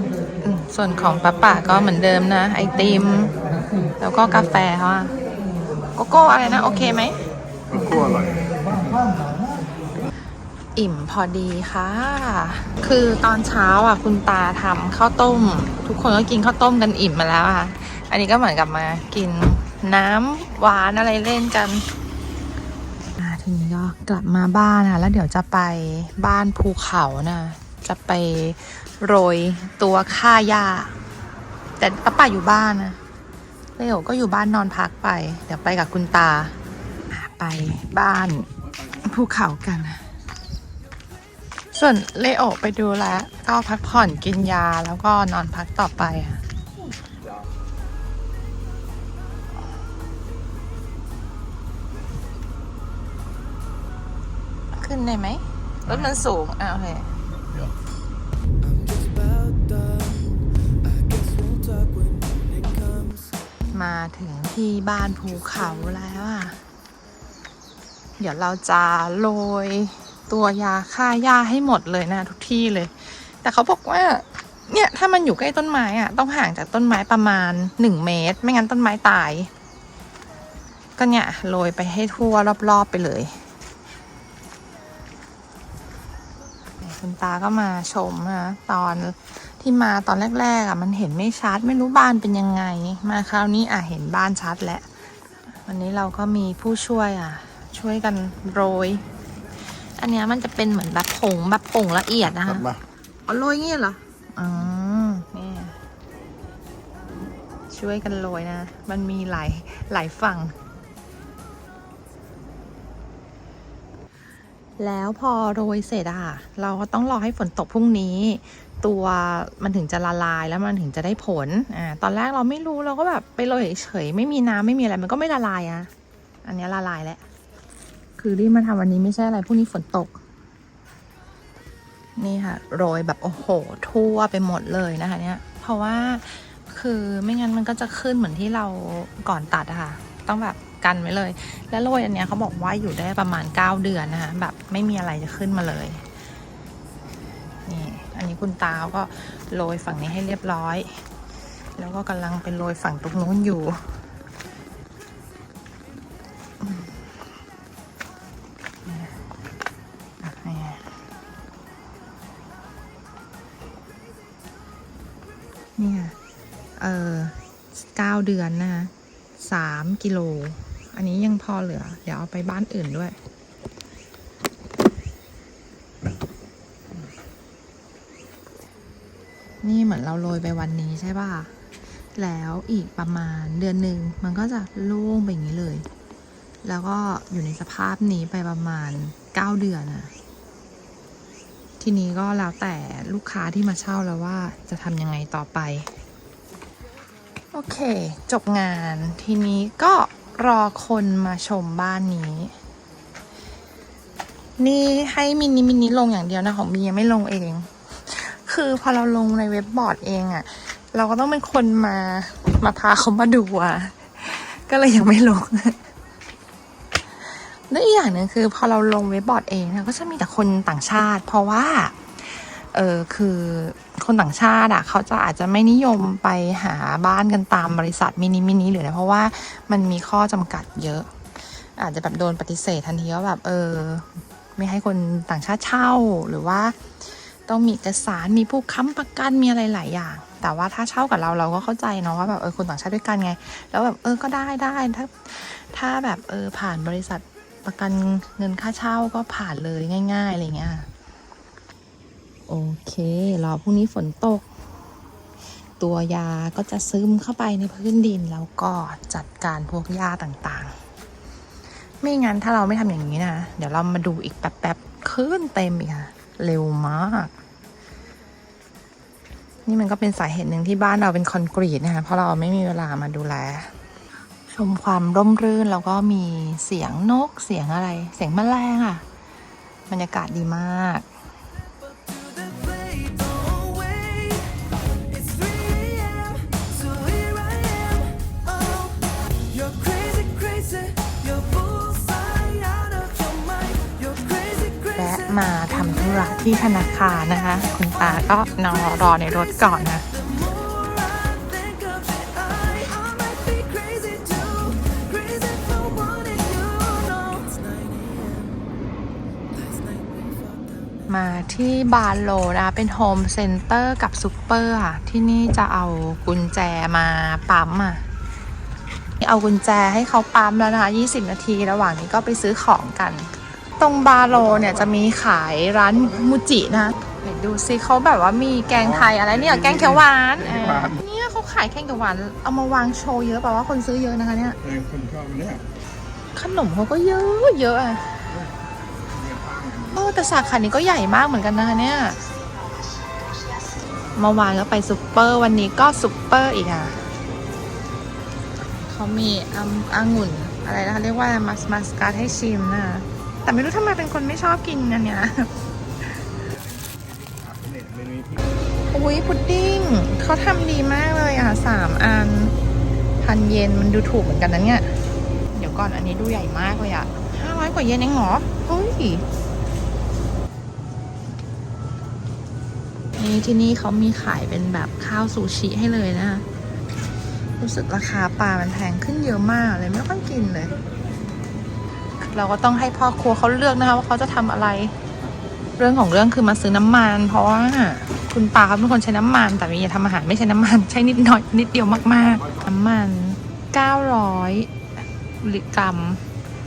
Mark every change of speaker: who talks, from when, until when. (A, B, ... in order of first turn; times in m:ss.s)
0:00.4-0:03.4 A
0:04.0-0:05.1 A
0:06.0-0:07.2 A
0:07.7-0:09.0 B
0:10.8-0:21.8 A
0:23.2-0:31.0 A
0:31.8-0:33.0 A
0:33.8-0:36.6 A
0:37.1-0:38.5 A
0:39.0-0:40.0 A
0:41.7-0:46.4 A
0:54.8-0:57.1 A
0:58.6-1:03.4 C
1:03.7-1:06.6 A
1:08.2-1:19.5 A
1:21.0-1:23.4 A
1:26.8-1:34.9 A
1:35.6-1:39.0 A
1:40.0-1:45.8 A
1:47.7-1:50.6 A
1:54.8-2:05.9 A
2:06.4-2:07.2 A
2:08.2-2:10.2 A
2:12.2-2:26.0 A
2:27.7-2:31.0 A
2:31.8-2:33.8 A
2:36.6-2:36.9 A
2:38.9-2:39.1 A
2:40.2-2:40.9 A
2:45.8-2:46.2 A
2:46.8-2:53.2 A
2:59.6-3:01.5 A
3:02.2-3:05.9 A
3:06.6-3:10.1 A
3:11.8-3:15.9 A
3:17.5-3:22.6 A
3:24.6-3:35.8 A
3:37.4-3:56.8 A
3:57.5-4:10.9 A
4:12.5-4:14.5 A
4:15.8-4:20.7 A
4:22.0-4:27.3 A
4:29.7-4:33.7 A
4:34.5-4:39.0 A
4:39.9-4:41.1 A
4:41.8-4:55.4 C
4:55.0-5:00.1 A
4:57.8-5:08.7 C
5:09.5-5:11.2 C
5:11.1-5:18.0 A
5:19.2-5:34.6 A
5:34.6-5:35.6 B
5:36.3-5:38.2 A
5:39.1-5:39.9 B
5:39.9-5:42.2 A
5:44.2-5:47.1 A
5:48.8-5:55.5 A
5:57.0-5:58.4 B
5:58.9-6:02.6 A
6:03.2-6:04.9 A
6:05.5-6:09.2 A
6:13.2-6:16.4 A
6:17.6-6:20.8 A
6:22.2-6:25.0 A
6:25.8-6:34.7 A
6:35.4-6:36.2 A